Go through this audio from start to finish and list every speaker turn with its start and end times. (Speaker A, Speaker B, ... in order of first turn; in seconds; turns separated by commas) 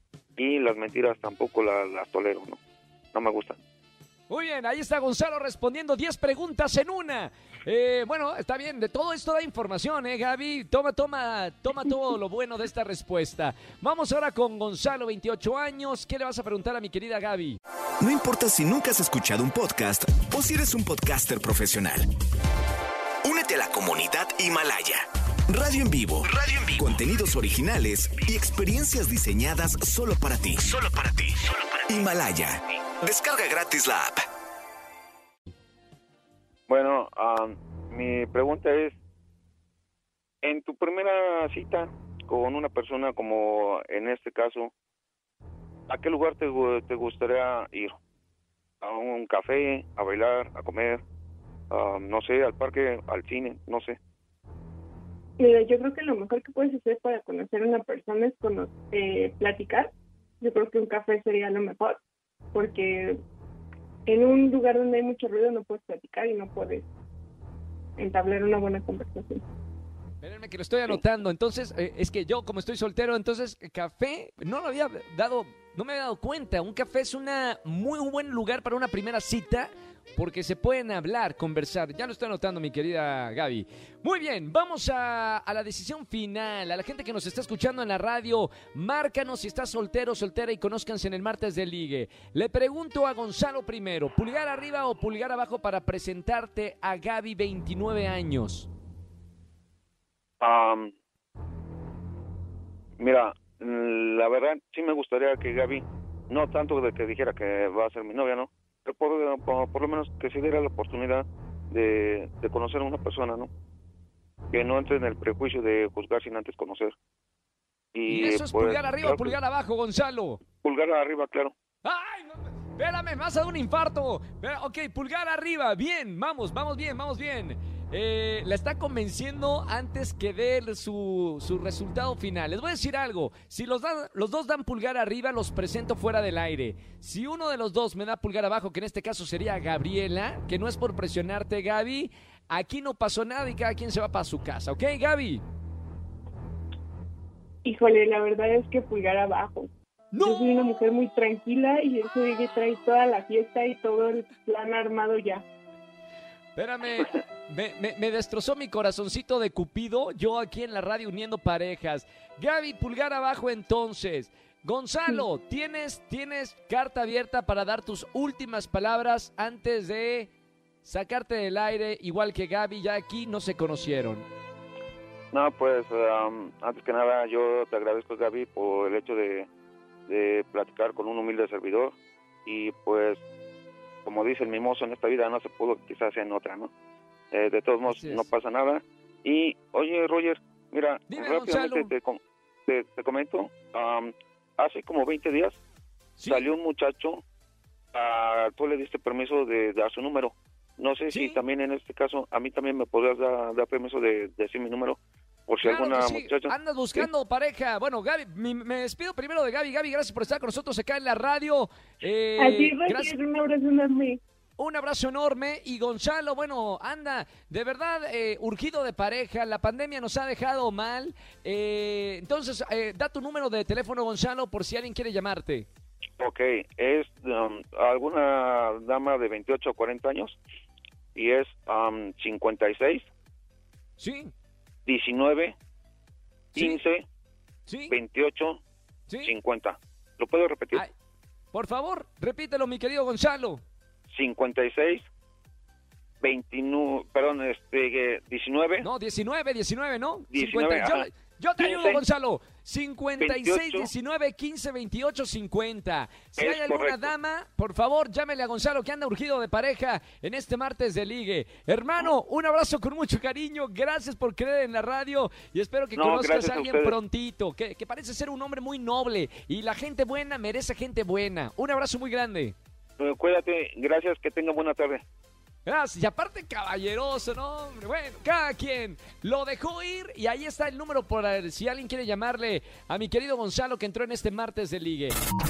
Speaker A: 0.4-2.6, Speaker A: 3.1-3.6, Speaker B: 4.3-17.6, Speaker C: 18.0-22.1, Speaker C: 23.2-34.3, Speaker A: 36.7-39.0, Speaker A: 40.4-44.7, Speaker A: 45.9-47.9, Speaker A: 48.8-51.0, Speaker A: 51.7-54.0, Speaker D: 55.4-62.0, Speaker D: 62.5-63.2, Speaker D: 64.1-66.9, Speaker D: 68.0-69.4, Speaker B: 70.2-98.7, Speaker A: 100.4-100.9, Speaker A: 103.0-113.5, Speaker A: 114.5-116.9, Speaker A: 117.9-119.4, Speaker B: 118.1-120.4, Speaker A: 120.6-121.5, Speaker B: 121.8-145.4, Speaker D: 147.6-149.7, Speaker B: 150.1-150.7, Speaker D: 150.2-155.4, Speaker B: 156.6-170.3, Speaker B: 170.8-174.3, Speaker A: 175.3-179.5, Speaker A: 180.1-183.2, Speaker A: 184.1-186.7, Speaker A: 187.3-195.6, Speaker B: 187.9-188.3, Speaker B: 191.1-191.9, Speaker B: 196.2-196.5, Speaker A: 196.3-197.2, Speaker A: 197.9-206.5, Speaker B: 201.1-201.4, Speaker B: 205.6-213.2, Speaker D: 212.4-214.2, Speaker B: 214.6-225.7, Speaker A: 226.2-230.4, Speaker A: 231.2-233.1, Speaker B: 234.0-234.3, Speaker A: 234.9-235.6, Speaker B: 236.6-236.8, Speaker A: 236.6-237.1, Speaker B: 237.7-238.0, Speaker A: 237.9-238.6, Speaker B: 239.1-239.3, Speaker A: 239.2-240.8, Speaker B: 241.5-243.6, Speaker A: 244.1-245.1, Speaker A: 246.2-248.9, Speaker B: 248.8-272.6, Speaker A: 250.3-251.1, Speaker A: 251.6-252.0, Speaker A: 253.2-253.9, Speaker A: 256.4-257.1, Speaker A: 266.0-266.9, Speaker A: 273.0-275.0, Speaker B: 275.7-285.1